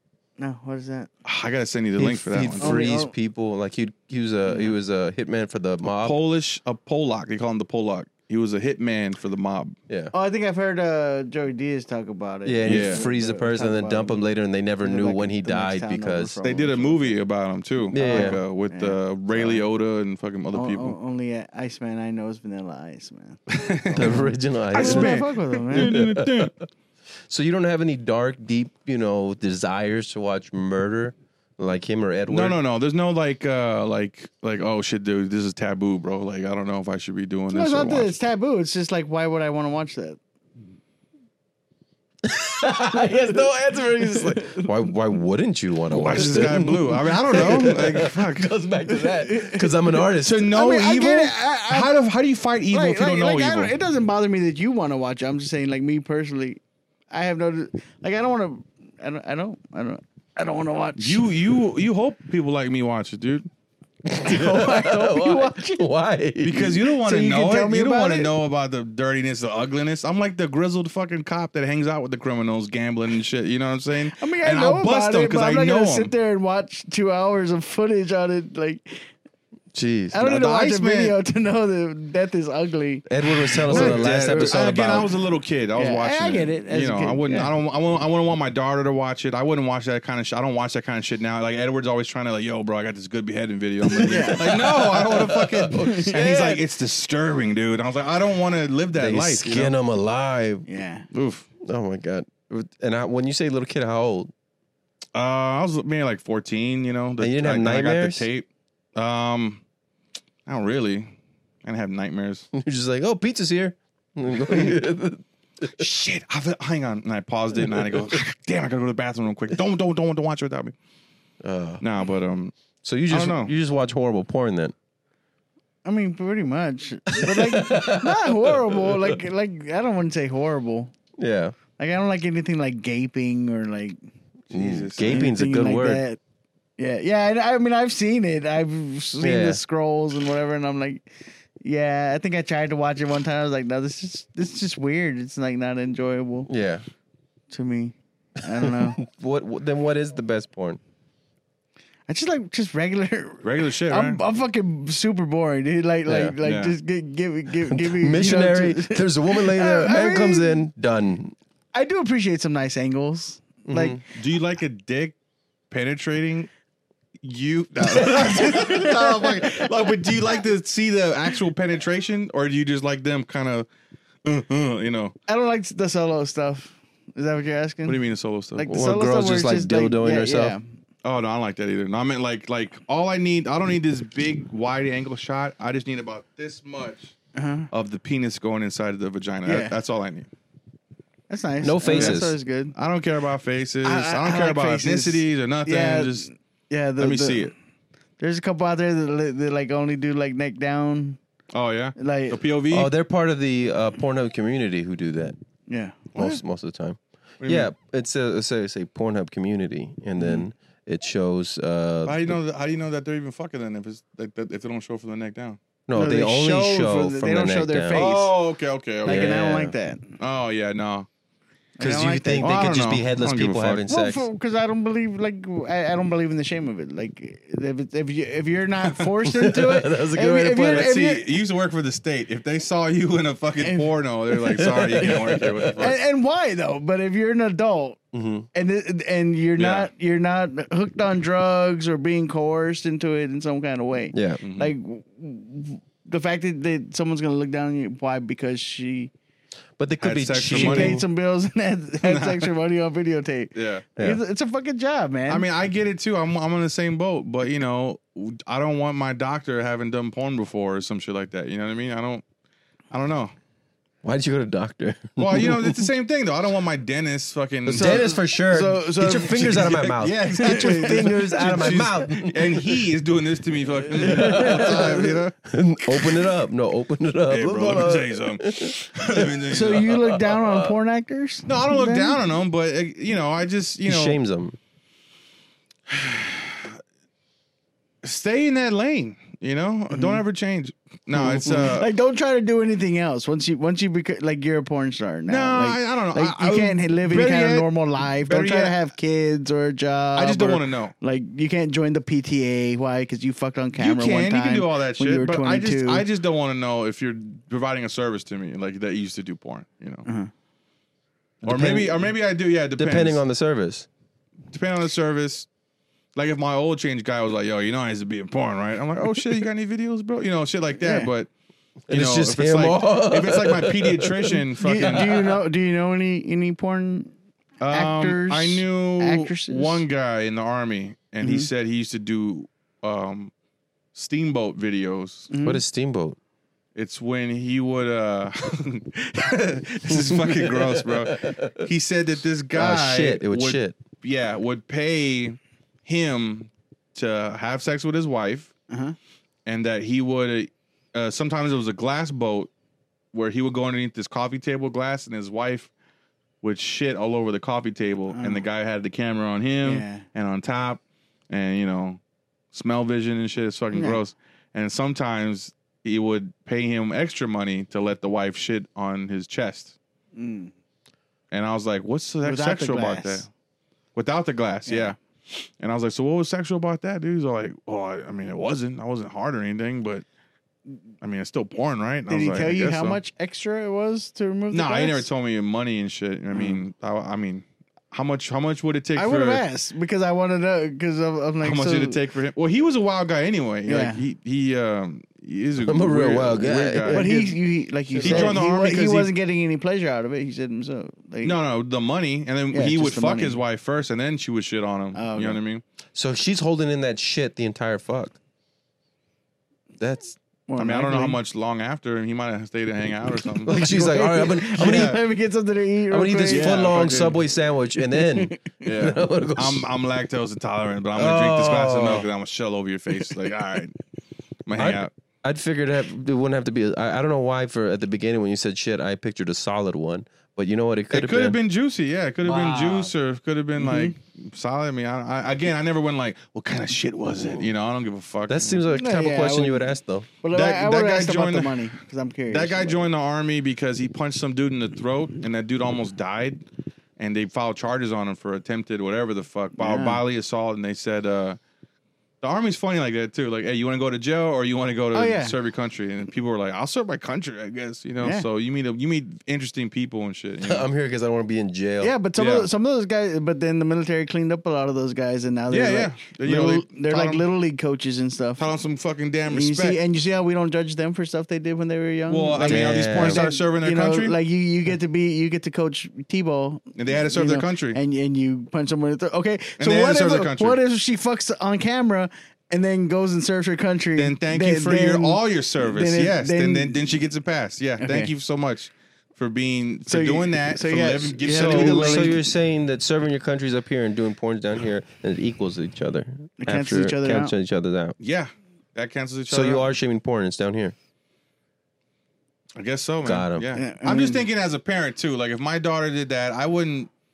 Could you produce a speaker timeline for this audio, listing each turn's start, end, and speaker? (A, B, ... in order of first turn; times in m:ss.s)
0:00.4-0:01.1 A
0:01.2-0:02.8 B
0:02.0-0:06.2 C
0:02.6-0:03.1 A
0:04.5-0:04.7 A
0:06.0-0:09.8 B
0:10.1-0:14.2 A
0:12.4-0:16.4 C
0:12.6-0:13.0 B
0:14.8-0:17.2 A
0:16.4-0:21.0 B
0:17.9-0:18.4 C
0:17.9-0:19.6 A
0:20.5-0:26.0 A
0:23.5-0:26.5 B
0:23.9-0:26.6 C
0:27.3-0:32.6 C
0:32.3-0:38.2 B
0:37.5-0:40.2 A
0:42.2-0:50.5 C
0:43.0-0:44.7 A
0:45.9-0:48.5 B
0:48.9-0:51.9 A
0:50.2-0:53.7 B
0:52.7-1:01.3 A
1:01.0-1:03.5 B
1:04.0-1:06.7 C
1:04.2-1:05.9 A
1:06.4-1:16.1 B
1:06.5-1:08.3 A
1:14.2-1:19.1 A
1:19.7-1:20.2 C
1:20.1-1:25.1 A
1:20.2-1:21.2 B
1:23.1-1:25.1 C
1:23.7-1:39.7 B
1:25.8-1:27.5 A
1:33.8-1:36.3 C
1:34.1-1:34.6 A
1:35.7-1:36.6 A
1:38.9-1:40.6 C
1:40.7-1:41.1 A
1:41.1-1:41.5 B
1:41.6-1:44.3 C
1:45.1-1:49.6 B
1:47.2-1:48.3 C
1:50.4-1:51.1 B
1:51.6-1:52.5 B
1:52.5-1:55.7 C
1:54.4-1:54.8 B
1:55.6-2:00.7 B
2:01.4-2:01.8 C
2:01.8-2:02.5 B
2:02.8-2:04.7 C
2:03.1-2:03.5 B
2:05.8-2:10.9 A
2:07.1-2:09.2 C
2:11.2-2:11.6 C
2:11.8-2:14.0 A
2:14.5-2:15.3 B
2:14.5-2:16.0 C
2:15.0-2:16.2 A
2:16.8-2:21.1 A
2:19.2-2:19.6 C
2:21.6-2:26.5 A
2:26.5-2:26.8 C
2:27.5-2:29.0 A
2:28.6-2:30.8 C
2:32.1-2:40.6 A
2:33.4-2:34.2 B
2:36.1-2:36.4 C
2:36.4-2:36.8 B
2:37.6-2:41.3 C
2:41.7-2:44.0 A
2:43.7-2:44.0 C
2:44.1-2:45.1 B
2:45.7-2:46.5 B
2:47.2-2:53.7 B
2:47.9-2:50.2 A
2:54.2-2:55.1 B
2:55.3-2:58.0 A
2:57.8-2:58.7 B
2:58.5-3:00.6 A
2:58.7-3:00.6 C
3:01.0-3:07.1 B
3:07.3-3:07.7 A
3:07.7-3:10.3 B
3:09.4-3:09.8 A
3:11.3-3:12.7 A
3:11.6-3:12.3 C
3:11.8-3:12.2 B
3:12.7-3:16.3 B
3:13.8-3:17.5 A
3:17.0-3:17.5 B
3:18.2-3:21.2 A
3:21.5-3:22.9 B
3:22.0-3:22.4 A
3:22.7-3:25.4 C
3:25.7-3:26.0 A
3:26.1-3:26.4 B
3:26.1-3:32.4 C
3:27.4-3:27.7 B
3:30.2-3:30.4 A
3:32.0-3:35.6 B
3:35.9-3:38.0 C
3:35.9-3:38.3 A
3:37.9-3:39.4 B
3:39.0-3:40.2 A
3:39.0-3:39.7 C
3:40.2-3:41.1 B
3:41.8-3:42.6 A
3:41.8-3:44.2 C
3:42.4-3:43.8 B
3:43.9-3:51.3 A
3:48.8-3:49.1 B
3:49.2-3:50.9 C
3:50.7-3:56.0 B
3:53.6-3:53.9 A
3:54.5-3:55.9 C
3:55.7-3:58.0 A
3:58.1-3:58.5 C
3:58.5-4:09.1 A
3:59.6-3:59.9 B
4:04.1-4:04.4 C
4:04.4-4:04.7 B
4:09.8-4:11.0 C
4:10.0-4:11.0 B
4:10.5-4:15.4 A
4:12.0-4:12.5 B
4:13.5-4:13.8 B
4:15.3-4:22.2 B
4:22.9-4:23.3 B
4:24.0-4:25.8 C
4:25.2-4:28.1 B
4:27.6-4:32.8 C
4:27.7-4:29.8 A
4:29.3-4:35.3 B
4:30.4-4:31.2 A
4:34.0-4:35.1 A
4:34.0-4:39.4 C
4:37.3-4:40.2 B
4:39.5-4:42.2 A
4:40.2-4:40.7 C
4:41.5-4:44.2 B
4:43.8-4:44.6 C
4:45.9-4:46.8 B
4:48.0-4:51.9 B
4:49.9-4:50.2 A
4:51.2-5:06.0 A
4:55.3-4:58.8 B
5:00.2-5:00.9 B
5:03.8-5:10.1 B
5:10.0-5:10.3 A
5:11.4-5:12.1 C
5:11.4-5:13.2 B
5:12.8-5:13.9 C
5:14.5-5:15.5 B
5:16.1-5:21.3 B
5:20.8-5:21.1 A
5:21.9-5:24.4 C
5:21.9-5:25.3 B
5:24.6-5:27.1 A
5:27.6-5:33.3 B
5:27.7-5:29.8 A
5:31.2-5:31.5 A
5:33.9-5:35.3 B
5:35.3-5:35.6 A
5:35.4-5:36.2 C
5:36.7-5:48.5 B
5:39.9-5:41.6 C
5:42.5-5:43.8 C
5:48.7-5:49.0 A
5:49.4-5:52.5 B
5:53.1-5:55.7 B
5:56.4-6:02.0 B
5:58.1-5:58.4 A
5:59.6-6:00.0 A
6:02.5-6:09.7 B
6:03.7-6:04.0 A
6:10.1-6:10.5 A
6:11.3-6:13.3 B
6:12.2-6:13.3 A
6:13.9-6:20.0 B
6:14.7-6:14.9 A
6:21.0-6:23.0 B
6:22.1-6:25.1 A
6:24.5-6:29.4 B
6:26.3-6:26.6 A
6:29.0-6:32.0 A
6:31.4-6:37.3 B
6:33.7-6:34.0 A
6:35.6-6:37.2 C
6:36.9-6:41.4 A
6:37.9-6:38.4 C
6:38.0-6:39.1 B
6:41.2-6:45.6 B
6:42.5-6:43.4 A
6:44.9-6:45.4 A
6:45.9-6:48.2 C
6:49.8-6:50.2 C
6:50.5-6:51.2 A
6:50.6-6:53.7 B
6:53.4-6:55.0 C
6:53.5-6:57.2 A
6:54.6-6:55.0 B
6:55.9-6:59.7 C
6:56.3-6:57.1 B
6:57.8-6:58.5 A
6:58.6-7:03.8 B
7:00.9-7:02.1 C
7:04.4-7:04.9 B
7:04.5-7:11.4 C
7:10.9-7:18.6 B
7:12.2-7:12.9 C
7:13.6-7:13.9 A
7:18.3-7:20.1 C
7:18.7-7:22.9 A
7:20.3-7:21.6 B
7:22.3-7:26.4 B
7:27.0-7:31.4 B
7:29.6-7:30.0 A
7:32.2-7:40.7 B
7:34.9-7:35.3 A
7:38.0-7:38.3 A
7:40.4-7:41.9 C
7:41.8-7:48.4 A
7:42.2-7:42.5 B
7:45.5-7:47.2 B
7:48.4-7:49.8 B
7:49.3-8:06.9 A
7:52.1-7:54.2 B
7:52.4-7:53.2 C
7:56.8-7:57.8 B
7:59.6-8:00.6 B
8:04.0-8:12.2 B
8:07.8-8:08.1 A
8:09.9-8:12.2 A
8:11.3-8:18.0 C
8:16.4-8:17.3 A
8:18.0-8:19.7 B
8:19.3-8:20.7 C
8:22.6-8:26.9 B
8:23.0-8:23.5 C
8:23.5-8:24.2 A